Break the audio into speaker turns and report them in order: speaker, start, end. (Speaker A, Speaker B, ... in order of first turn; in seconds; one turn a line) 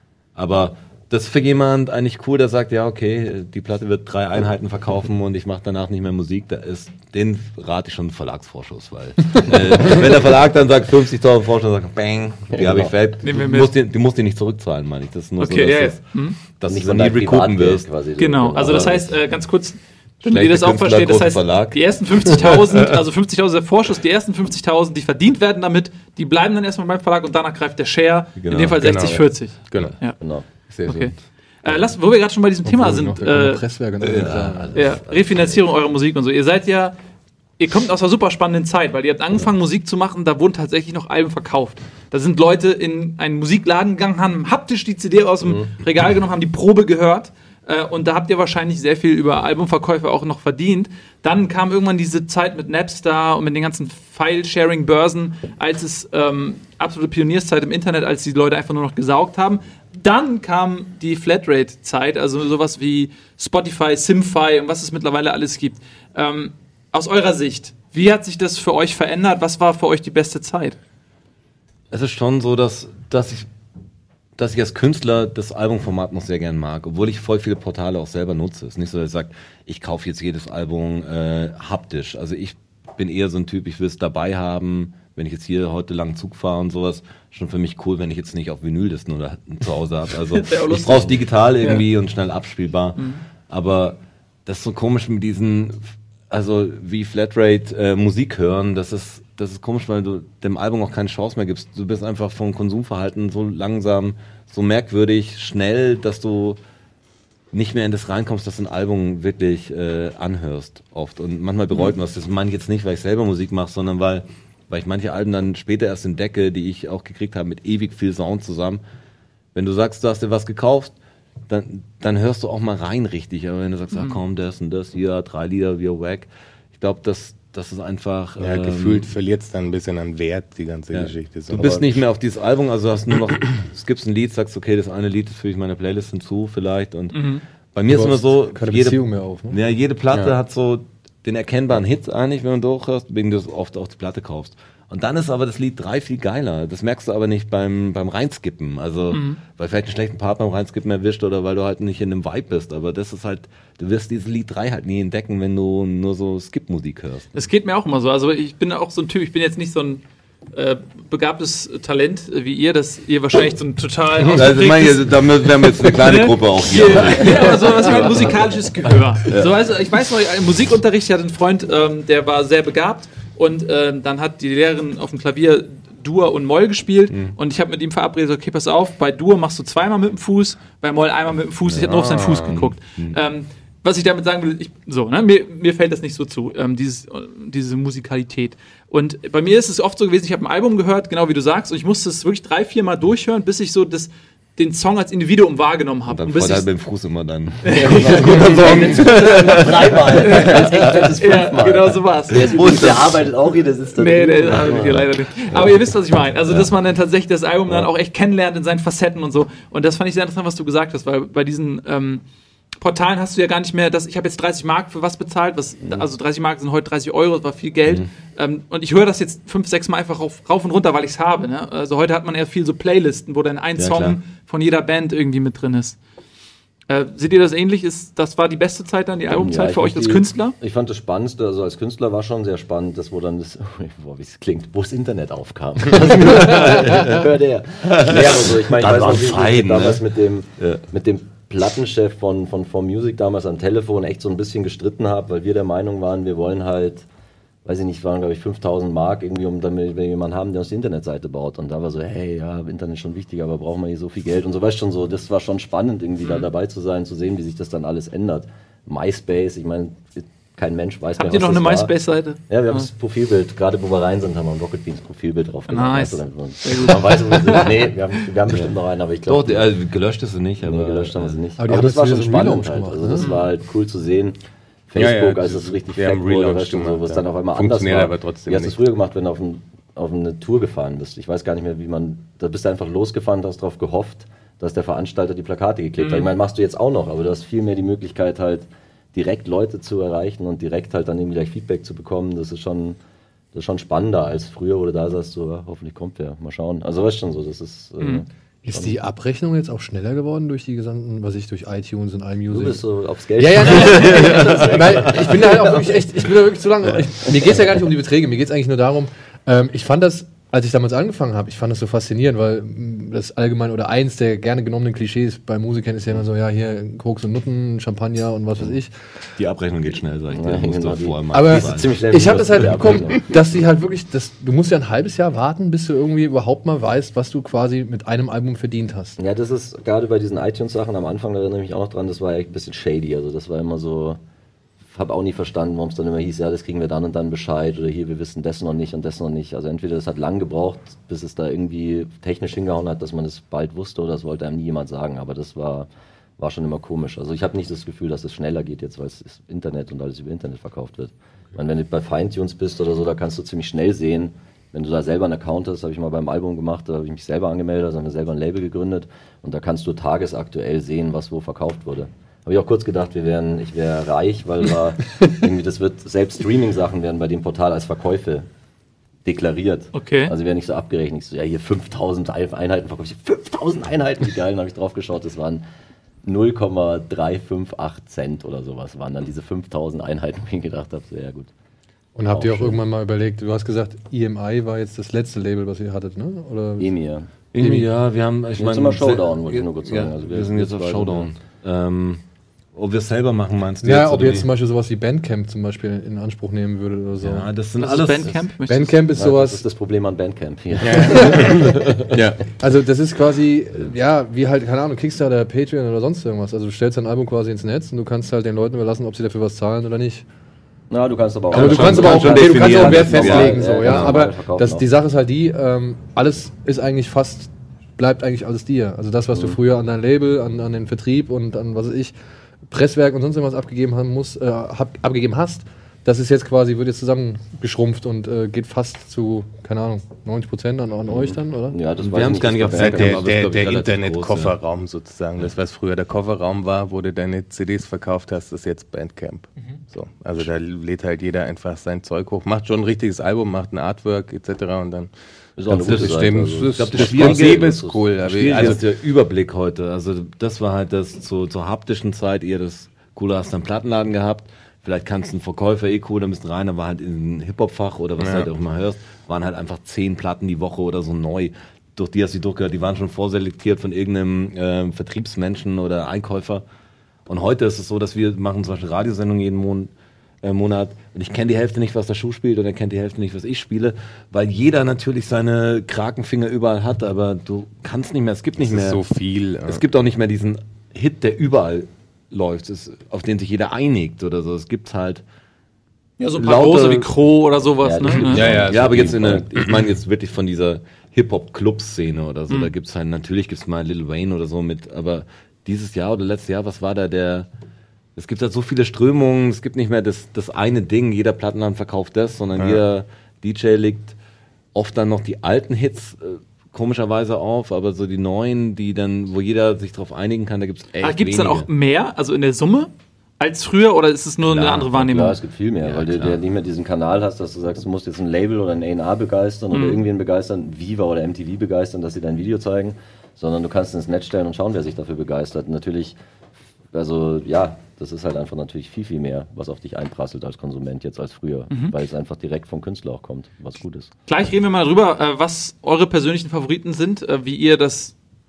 Speaker A: 0.4-17.9
Speaker B: 12.5-12.9
Speaker C: 13.2-13.7
Speaker C: 15.4-16.4
Speaker B: 16.7-19.2
Speaker C: 18.2-30.2
Speaker A: 20.2-22.8
Speaker A: 28.4-28.9
Speaker D: 28.8-29.9
Speaker B: 30.2-30.4
Speaker D: 30.7-31.1
Speaker C: 30.8-33.6
Speaker E: 32.6-35.0
Speaker A: 34.0-34.8
Speaker B: 34.4-35.6
Speaker C: 34.7-36.9
Speaker C: 37.6-70.8
Speaker A: 71.9-73.5
Speaker A: 74.4-106.6
Speaker C: 90.3-91.9
Speaker C: 93.0-93.2
Speaker A: 107.5-118.8
Speaker A: 119.5-121.0
Speaker A: 121.5-129.1
Speaker C: 123.9-124.2
Speaker D: 128.4-132.0
Speaker A: 130.9-157.3
Speaker C: 137.1-137.4
Speaker E: 137.9-139.6
Speaker C: 149.1-149.4
Speaker C: 157.3-160.0
Speaker C: 160.5-196.7
Speaker A: 164.2-168.4
Speaker A: 169.3-169.5
Speaker A: 177.1-177.4
Speaker A: 181.7-183.2
Speaker D: 181.9-182.6
Speaker A: 196.1-201.1
Speaker C: 197.6-203.1
Speaker B: 197.8-205.7
Speaker A: 202.3-203.2
Speaker C: 203.9-212.2
Speaker C: 212.8-226.0
Speaker A: 223.8-224.2
Speaker C: 226.9-230.6
Speaker B: 229.3-247.1
Speaker A: 235.9-237.2
Speaker A: 237.8-240.0
Speaker B: 247.7-261.9
Speaker C: 261.2-262.9
Speaker B: 262.5-269.7
Speaker C: 265.7-267.9
Speaker A: 268.5-268.7
Speaker A: 269.3-271.4
Speaker B: 270.6-274.4
Speaker E: 271.6-273.3
Speaker B: 274.9-293.0
Speaker D: 274.9-278.8
Speaker C: 286.0-286.3
Speaker B: 293.5-298.9
Speaker E: 298.7-302.8
Speaker B: 302.5-306.1
Speaker E: 303.4-318.9
Speaker A: 303.7-305.2
Speaker A: 319.4-322.0
Speaker B: 320.3-323.2
Speaker E: 321.3-329.2
Speaker B: 329.2-334.2
Speaker B: 334.9-368.5
Speaker B: 369.2-375.6
Speaker C: 369.9-370.3
Speaker B: 376.2-381.5
Speaker E: 382.2-386.9
Speaker B: 382.3-382.8
Speaker B: 386.8-387.3
Speaker A: 387.5-392.2
Speaker E: 387.6-387.9
Speaker B: 388.6-391.3
Speaker A: 392.8-394.5
Speaker E: 393.8-397.5
Speaker A: 397.2-398.5
Speaker C: 397.8-398.9
Speaker E: 398.7-399.6
Speaker B: 399.1-402.2
Speaker D: 400.8-402.4
Speaker E: 400.9-401.6
Speaker E: 402.6-410.3
Speaker B: 410.9-414.9
Speaker A: 411.5-414.2
Speaker E: 411.5-422.1
Speaker E: 422.7-431.8
Speaker B: 431.1-433.2
Speaker A: 432.0-434.6
Speaker D: 432.7-445.1
Speaker B: 445.6-448.8
Speaker D: 445.7-448.8
Speaker A: 445.8-466.6
Speaker D: 458.2-458.5
Speaker A: 467.3-469.9
Speaker A: 470.4-479.0
Speaker D: 478.6-479.8
Speaker A: 479.7-485.2
Speaker C: 486.2-488.6
Speaker A: 486.4-487.1
Speaker B: 487.8-489.4
Speaker A: 488.1-497.5
Speaker D: 488.3-489.8
Speaker A: 498.2-504.2
Speaker A: 504.7-511.7
Speaker C: 511.0-515.4
Speaker A: 514.4-514.9
Speaker B: 514.9-526.2
Speaker A: 515.8-516.4
Speaker C: 519.7-520.0
Speaker B: 526.9-534.1
Speaker C: 534.3-538.1